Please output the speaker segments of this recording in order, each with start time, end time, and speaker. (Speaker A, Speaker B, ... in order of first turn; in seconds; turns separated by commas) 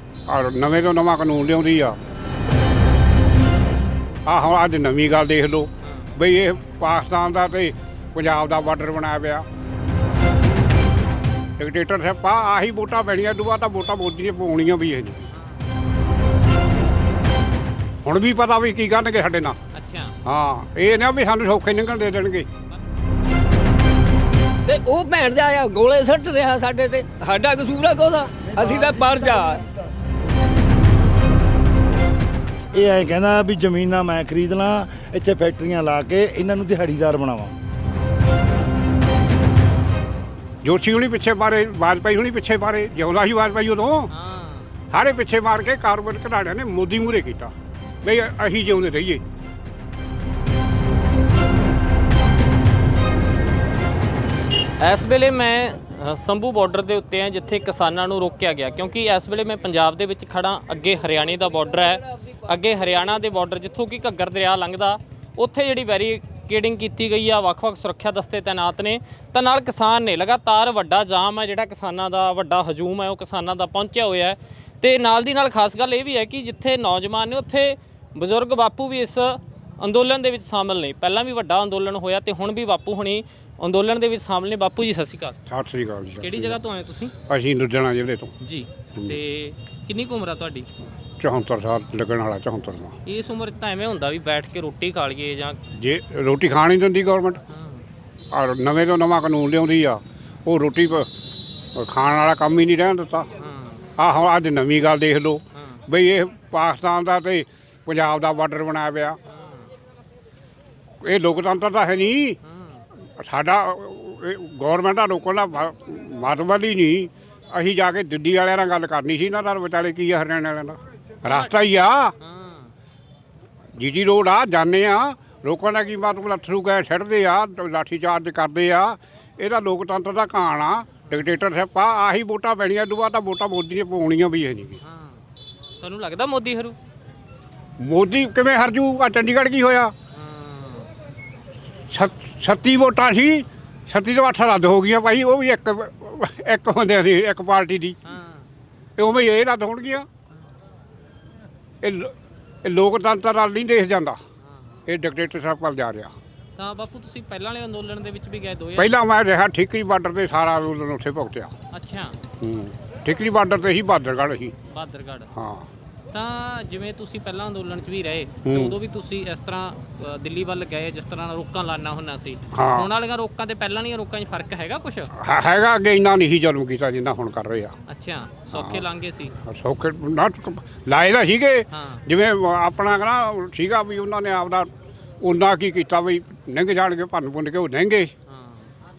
Speaker A: 0.3-2.0, Speaker A: 4.3-9.4, Speaker B: 5.8-6.1, Speaker A: 11.6-15.2, Speaker B: 15.3-15.6, Speaker A: 18.0-19.6, Speaker B: 19.7-20.1, Speaker A: 20.2-22.5, Speaker C: 24.6-29.6, Speaker D: 28.4-29.9, Speaker D: 32.7-37.6, Speaker A: 40.6-44.1, Speaker B: 44.1-44.7, Speaker A: 44.9-49.2, Speaker B: 54.8-85.4, Speaker C: 61.5-62.4, Speaker A: 85.5-86.6, Speaker B: 86.2-87.1, Speaker A: 87.3-88.3, Speaker B: 88.4-90.7, Speaker A: 91.2-93.0, Speaker B: 93.0-95.6, Speaker A: 95.7-97.4, Speaker B: 97.5-97.8, Speaker A: 98.3-101.1, Speaker A: 101.8-103.3, Speaker B: 103.4-103.8, Speaker A: 104.0-109.2, Speaker B: 109.3-109.7, Speaker A: 111.0-112.4, Speaker B: 112.4-112.8, Speaker A: 113.2-122.1, Speaker B: 121.3-121.5, Speaker B: 122.2-122.7, Speaker A: 123.8-134.8, Speaker B: 134.8-135.2, Speaker B: 135.8-136.8, Speaker A: 137.8-139.9, Speaker B: 140.1-140.9, Speaker A: 141.9-148.0, Speaker B: 148.1-148.5, Speaker A: 149.0-150.1, Speaker A: 151.8-154.2, Speaker B: 154.4-154.8, Speaker A: 154.9-156.1, Speaker B: 156.6-158.9, Speaker A: 158.8-161.5, Speaker B: 161.7-162.2, Speaker A: 162.4-164.6, Speaker B: 164.7-165.3, Speaker A: 165.3-165.7, Speaker B: 166.1-175.1, Speaker A: 168.4-168.8, Speaker A: 172.5-172.9, Speaker A: 175.2-177.8, Speaker B: 177.9-179.3, Speaker A: 178.5-178.8, Speaker A: 179.4-184.7, Speaker B: 181.7-182.0, Speaker A: 185.2-188.1, Speaker B: 188.3-188.7